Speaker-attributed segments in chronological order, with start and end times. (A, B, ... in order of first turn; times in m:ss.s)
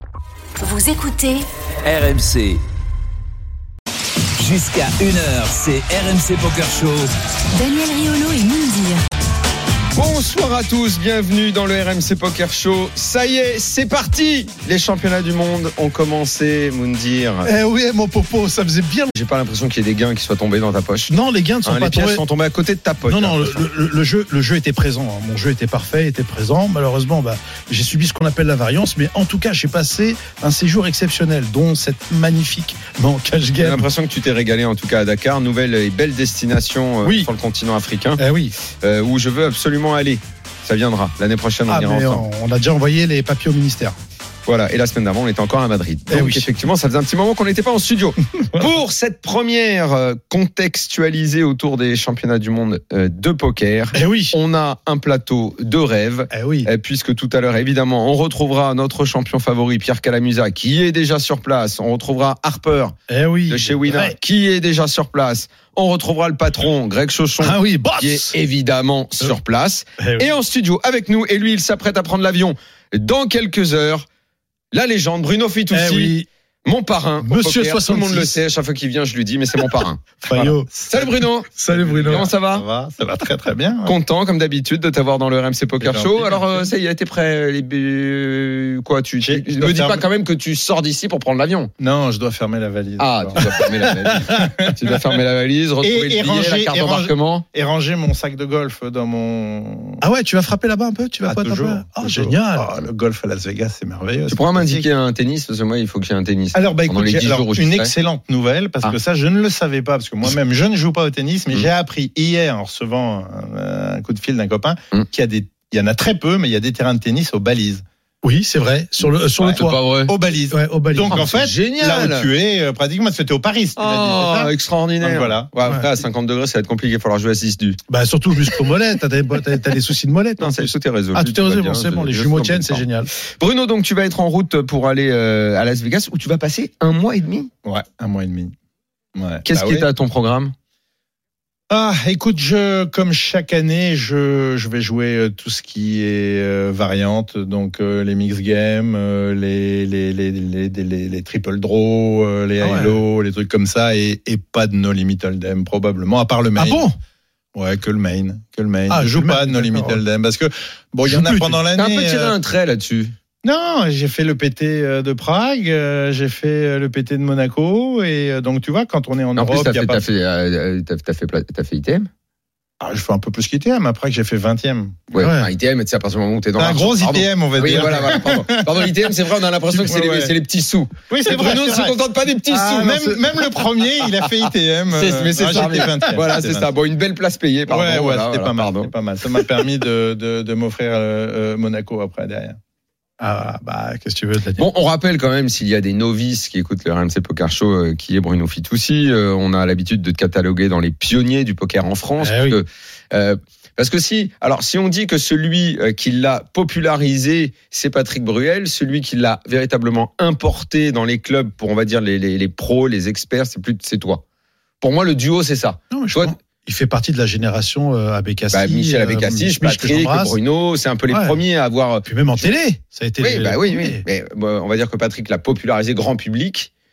0:00.6-0:01.4 A
0:01.8-0:02.6 B
0:04.4-0:07.1 B
0:07.6-0:09.0 A
0:09.9-0:17.5 C
0:17.4-0:19.1 D
0:19.1-0:21.1 C
0:21.1-0:22.2 D
0:21.6-0:23.7 C
0:23.1-0:33.9 D
0:33.6-0:38.2 C
0:37.0-0:37.3 D
0:38.2-0:38.6 D
0:38.8-0:42.2 C
0:41.7-0:44.0 D
0:44.5-1:03.0 C
0:46.1-0:46.6 D
0:53.9-0:54.4 D
0:56.3-0:56.7 D
1:03.1-1:04.2 D
1:03.5-1:14.1 C
1:07.4-1:08.3 D
1:10.0-1:10.3 D
1:14.7-1:16.1 C
1:15.7-1:16.3 D
1:16.6-1:20.2 C
1:17.2-1:18.4 D
1:20.2-1:21.1 E
1:20.3-1:20.7 D
1:20.8-1:21.5 C
1:21.6-1:22.3 D
1:21.6-1:24.0 E
1:22.1-1:22.7 C
1:23.8-1:31.7 C
1:25.8-1:26.7 E
1:29.2-1:30.0 E
1:31.8-1:35.2 E
1:33.0-1:37.4 C
1:35.8-1:40.0 E
1:40.0-1:42.7 D
1:41.2-1:44.9 E
1:44.3-1:47.9 C
1:46.5-1:57.8 E
1:58.2-1:59.8 D
1:59.4-2:05.5 E
1:59.5-2:00.1 C
2:00.5-2:01.2 D
2:01.1-2:02.3 C
2:03.8-2:07.8 C
2:07.9-2:13.1 D
2:10.4-2:17.5 C
2:17.6-2:18.5 E
2:19.2-2:19.9 E
2:19.4-2:20.5 C
2:21.7-2:36.9 E
2:32.6-2:33.0 D
2:36.6-2:36.9 D
2:37.6-2:42.4 E
2:38.9-2:40.0 D
2:41.1-2:41.6 D
2:41.8-2:43.1 C
2:43.4-2:50.0 E
2:49.4-2:52.1 C
2:52.8-2:55.0 E
2:55.1-3:03.5 C
2:55.2-2:55.5 D
2:56.6-2:58.9 E
2:59.8-3:00.3 E
3:01.1-3:02.0 E
3:02.5-3:06.7 E
3:04.0-3:04.3 C
3:04.9-3:08.9 C
3:05.5-3:05.9 D
3:07.7-3:12.6 E
3:13.2-3:14.7 D
3:14.6-3:34.2 C
3:22.2-3:22.6 D
3:34.8-3:36.4 C
3:35.9-3:40.4 D
3:38.5-3:42.5 C
3:41.1-3:41.4 D
3:42.0-3:44.0 D
3:43.2-3:46.7 C